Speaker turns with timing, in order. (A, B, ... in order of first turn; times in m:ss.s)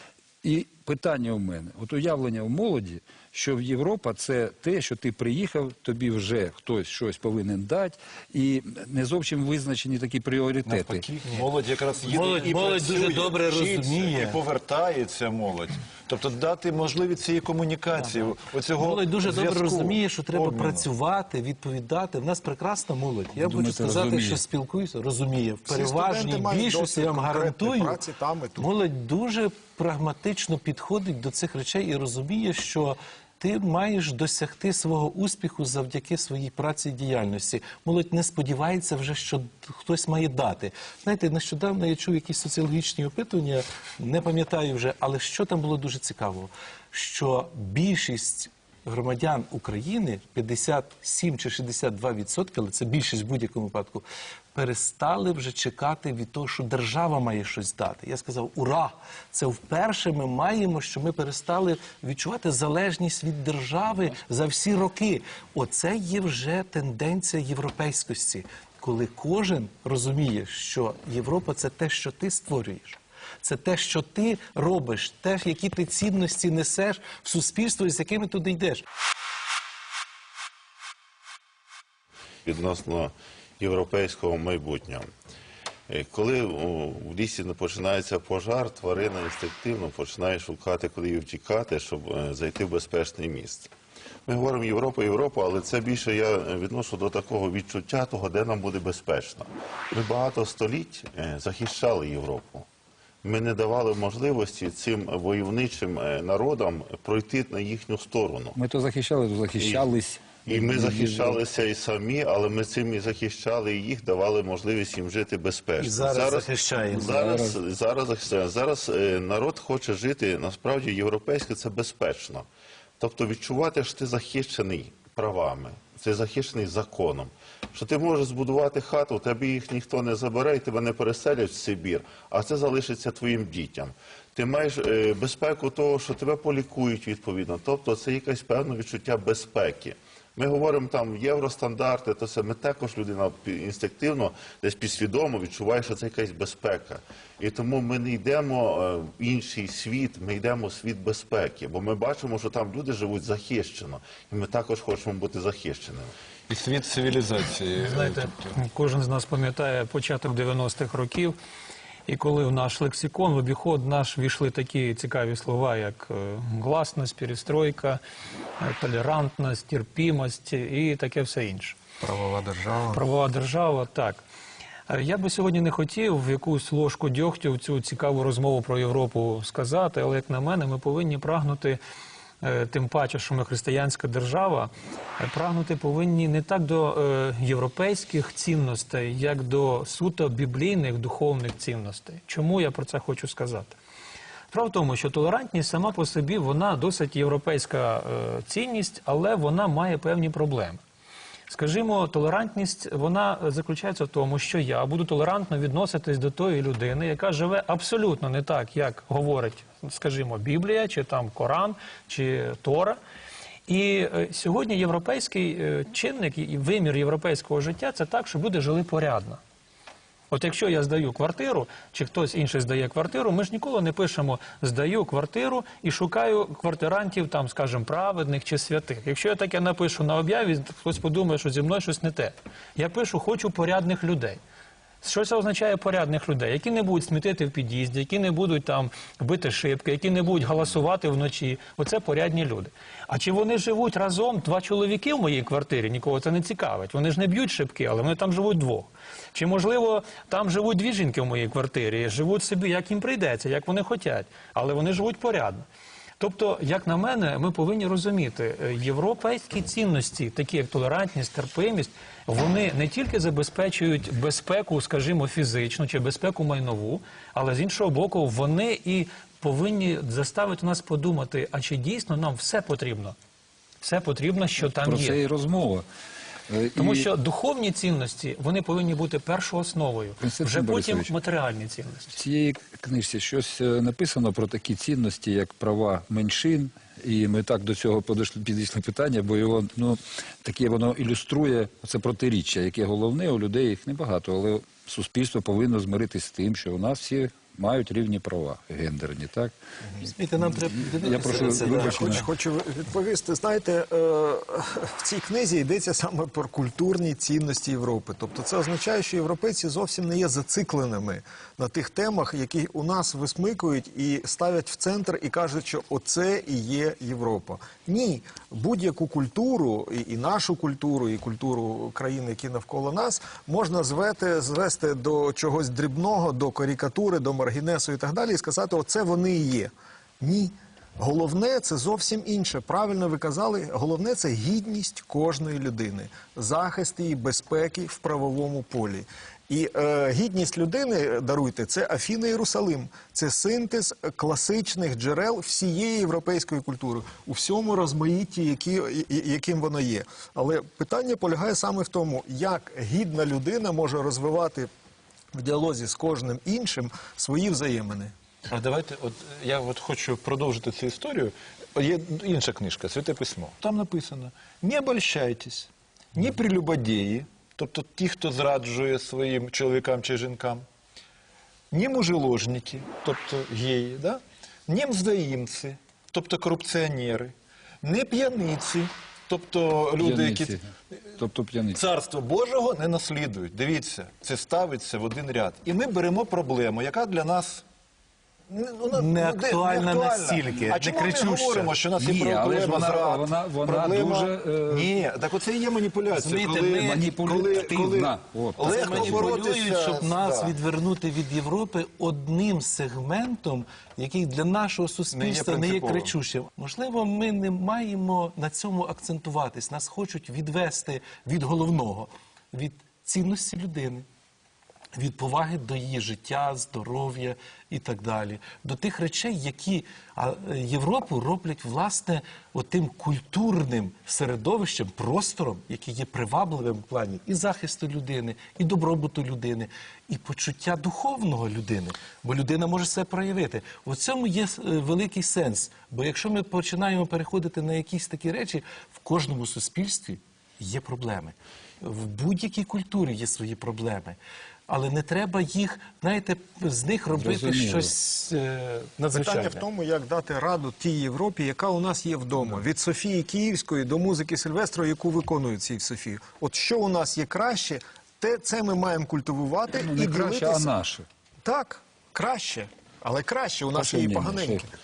0:00.4-0:11.0 A
0:10.6-0:20.9 B
0:12.0-0:14.4 C
0:18.8-0:28.0 C
0:23.4-0:24.4 A
0:25.6-0:28.7 D
0:28.6-1:18.8 C
1:22.4-1:25.1 E
1:25.9-1:33.7 E
1:34.3-1:42.6 E
1:43.2-1:48.6 E
1:48.6-1:51.4 A
1:49.6-1:49.9 E
1:50.4-2:02.4 E
1:55.8-1:57.2 C
1:56.9-1:57.6 A
2:03.0-2:36.1 E
2:36.5-2:38.5 B
2:37.8-2:41.4 F
2:42.1-2:48.0 F
2:48.6-2:51.8 F
2:52.0-2:53.0 D
2:52.9-2:54.2 F
2:54.9-3:01.8 F
3:02.4-3:13.8 F
3:14.5-3:20.8 F
3:21.5-3:33.0 F
3:33.7-3:39.4 F
3:40.3-3:54.4 F
3:55.0-4:15.6 F
4:16.2-4:33.2 F
4:33.8-4:35.2 F
4:34.7-4:35.8 A
4:36.5-4:37.1 A
4:36.8-4:42.2 F
4:40.2-4:41.1 A
4:42.1-4:59.5 A
5:00.0-5:02.2 C
5:00.6-5:02.3 A
5:01.3-5:54.7 D
5:55.3-5:58.1 D
5:58.5-6:10.6 B
6:11.7-6:20.6 B
6:20.0-6:21.8 A
6:21.7-6:27.6 B
6:28.5-6:40.6 B
6:28.9-6:31.7 C
6:32.0-6:34.9 A
6:36.1-6:37.2 C
6:36.8-6:39.4 A
6:38.6-6:54.0 C
6:45.1-6:46.1 B
6:55.0-7:29.6 C
7:27.1-7:27.9 A
7:29.1-7:40.7 D
7:39.8-7:41.0 A
7:41.4-7:44.7 D
7:43.8-7:44.6 A